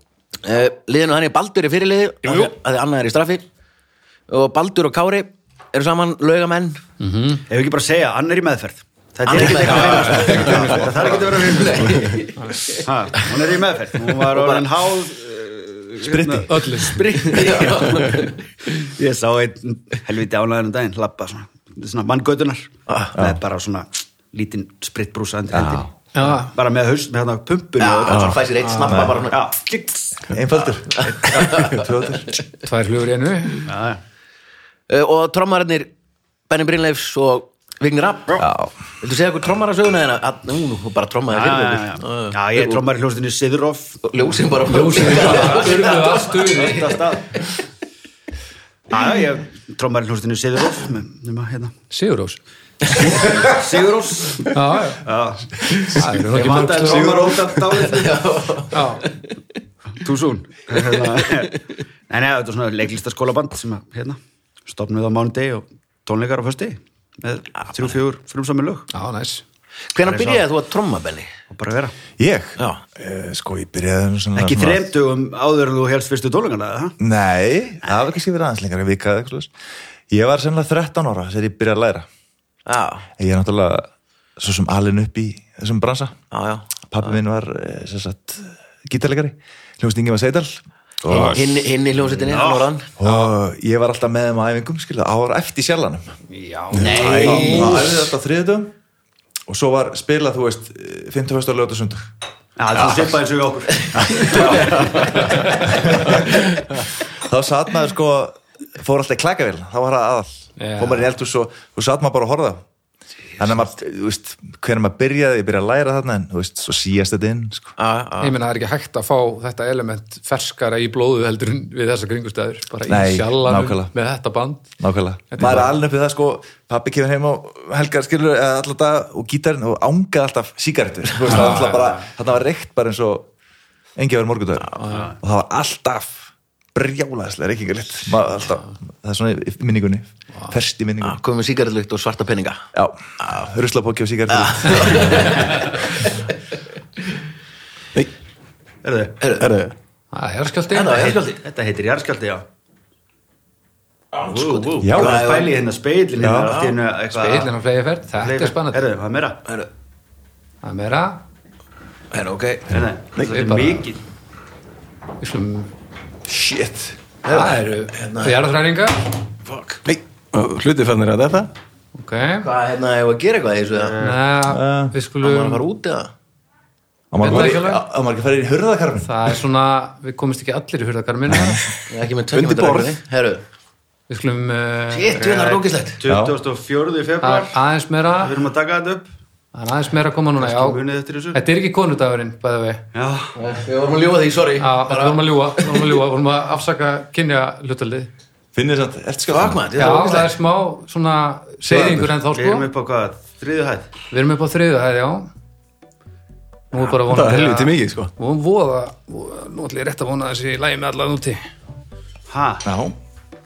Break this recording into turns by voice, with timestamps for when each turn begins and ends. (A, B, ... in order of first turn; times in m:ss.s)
0:00.4-0:03.4 A
0:02.2-0:02.5 B
0:04.3-0:06.8 A
0:07.0-0:07.4 C
0:07.5-0:12.3 B
0:09.2-0:13.4 A
0:09.5-0:10.9 C
0:12.8-0:28.2 B
0:14.2-0:14.7 A
0:16.0-0:16.7 D
0:16.5-0:17.2 C
0:17.1-0:18.3 A
0:22.9-0:23.1 A
0:25.5-0:25.9 D
0:26.1-0:26.5 C
0:27.8-0:29.4 A
0:28.1-0:28.4 E
0:28.6-0:29.0 C
0:28.8-0:29.2 D
0:29.2-0:31.5 B
0:30.3-0:32.4 D
0:31.0-0:31.9 A
0:32.6-0:33.7 C
0:33.6-0:34.0 B
0:34.9-0:35.9 A
0:36.5-0:38.5 A
0:38.4-0:38.7 D
0:39.0-0:42.8 A
0:41.3-0:44.0 B
0:44.0-0:47.5 A
0:44.6-0:46.9 C
0:45.3-0:47.4 B
0:48.9-0:51.7 B
0:51.9-0:52.4 C
0:52.8-0:53.4 A
0:52.9-0:55.7 B
0:54.5-0:55.0 C
0:55.6-0:56.0 A
0:55.9-0:57.3 C
0:56.3-0:58.2 B
0:57.0-0:57.4 E
0:57.6-0:59.4 A
0:58.7-0:59.0 C
1:00.0-1:08.9 B
1:00.7-1:01.5 A
1:07.6-1:08.0 A
1:08.9-1:09.4 C
1:09.9-1:11.3 A
1:10.0-1:10.4 B
1:11.5-1:11.9 B
1:12.2-1:14.9 D
1:14.3-1:17.0 B
1:17.0-1:19.5 D
1:20.1-1:22.1 D
1:22.6-1:23.1 A
1:23.2-1:26.2 D
1:26.3-1:27.1 A
1:26.9-1:31.6 D
1:31.1-1:32.9 A
1:31.1-1:31.4 C
1:32.2-1:32.7 B
1:33.0-1:36.1 D
1:33.0-1:33.3 C
1:36.3-1:37.8 B
1:36.7-1:37.8 E
1:37.1-1:37.7 A
1:37.3-1:37.6 C
1:37.3-1:38.7 D
1:39.5-1:42.1 D
1:42.6-1:45.8 B
1:44.2-1:52.6 D
1:44.7-1:45.0 E
1:45.2-1:45.7 C
1:50.6-1:51.1 C
1:53.4-1:57.8 D
1:57.8-1:58.3 A
1:58.2-2:04.8 C
2:02.9-2:03.9 D
2:04.8-2:13.3 D
2:05.3-2:05.8 C
2:11.2-2:12.0 C
2:14.0-2:21.2 D
2:14.6-2:14.9 A
2:14.8-2:15.1 C
2:14.8-2:15.1 B
2:21.0-2:22.7 A
2:22.7-2:25.7 D
2:24.3-2:26.1 A
2:28.8-2:29.2 B
2:29.2-2:29.5 A
2:29.4-2:29.7 E
2:30.1-2:31.1 C
2:30.7-2:31.4 A
2:30.9-2:32.4 B
2:34.1-2:35.6 A
2:34.3-2:37.5 B
2:34.8-2:35.3 D
2:36.2-2:36.6 D
2:36.4-2:36.8 A
2:37.1-2:38.8 C
2:38.1-2:39.4 B
2:40.6-2:41.2 C
2:42.1-2:42.8 A
2:42.7-2:44.0 B
2:43.2-2:43.4 E
2:43.2-2:43.8 C
2:45.2-2:45.7 C
2:46.2-2:47.0 D
2:47.2-2:48.4 A
2:47.3-2:49.1 C
2:49.4-2:49.8 A
2:49.8-2:51.5 E
2:51.9-2:52.5 C
2:52.4-2:54.0 A
2:53.8-2:54.2 B
2:54.0-2:55.6 C
2:54.5-2:54.9 D
2:55.2-2:56.1 A
2:57.1-2:59.1 D
2:57.2-2:57.8 C
2:59.0-3:01.7 C
3:01.9-3:03.4 A
3:02.3-3:03.0 E
3:04.1-3:05.2 C
3:04.9-3:06.0 A
3:05.2-3:07.6 B
3:06.1-3:06.3 D
3:07.2-3:08.4 C
3:08.2-3:09.1 B
3:09.5-3:10.8 C
3:10.4-3:11.4 B
3:11.3-3:12.8 C
3:12.9-3:13.4 B
3:13.4-3:16.0 A
3:14.6-3:18.1 C
3:18.5-3:19.6 D
3:19.3-3:20.3 A
3:19.8-3:22.6 C
3:21.7-3:22.0 E
3:22.3-3:23.9 B
3:24.1-3:25.3 C
3:26.7-3:31.5 C
3:27.0-3:28.1 E
3:32.3-3:32.6 B
3:32.6-3:32.9 D